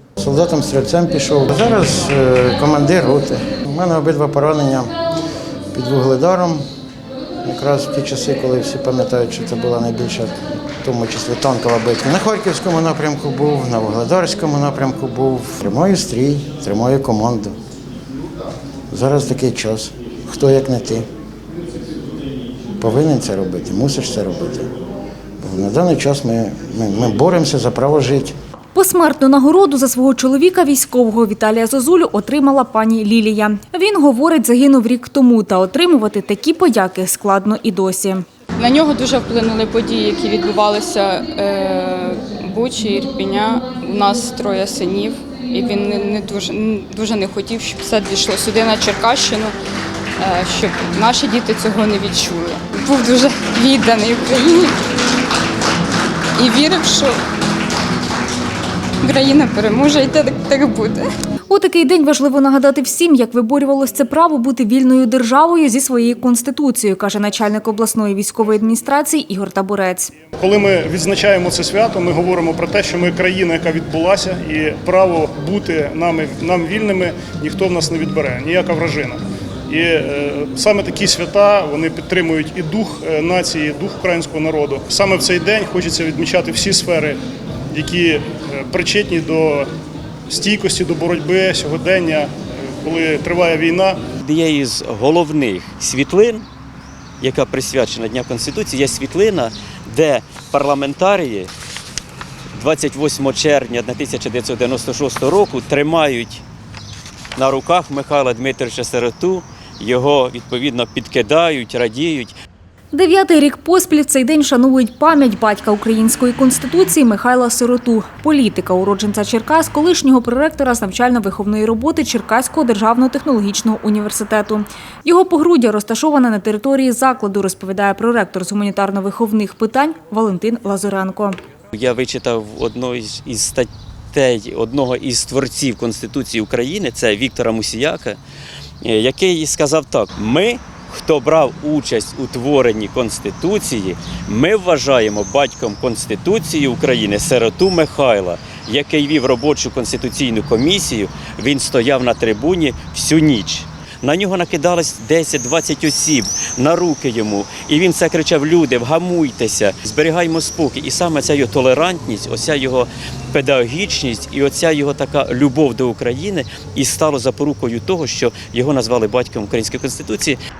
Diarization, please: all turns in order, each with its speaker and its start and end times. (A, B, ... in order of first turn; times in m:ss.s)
0:00.2-0:04.9 A
0:05.7-0:06.6 A
0:07.4-0:17.5 A
0:18.9-0:21.0 A
0:22.8-0:24.7 A
0:25.4-0:28.3 A
0:28.7-0:38.2 B
0:38.6-0:49.6 C
0:50.2-0:54.8 C
0:56.4-0:57.2 C
0:59.0-1:01.1 C
1:01.5-1:10.1 B
1:10.4-1:27.2 D
1:27.7-1:29.7 D
1:30.3-1:32.3 D
1:32.8-1:34.0 D
1:34.2-1:36.4 E
1:37.2-1:41.5 E
1:42.5-1:46.4 E
1:47.4-1:52.3 E
1:52.9-2:11.4 B
2:11.7-2:18.2 E
2:18.8-2:50.4 E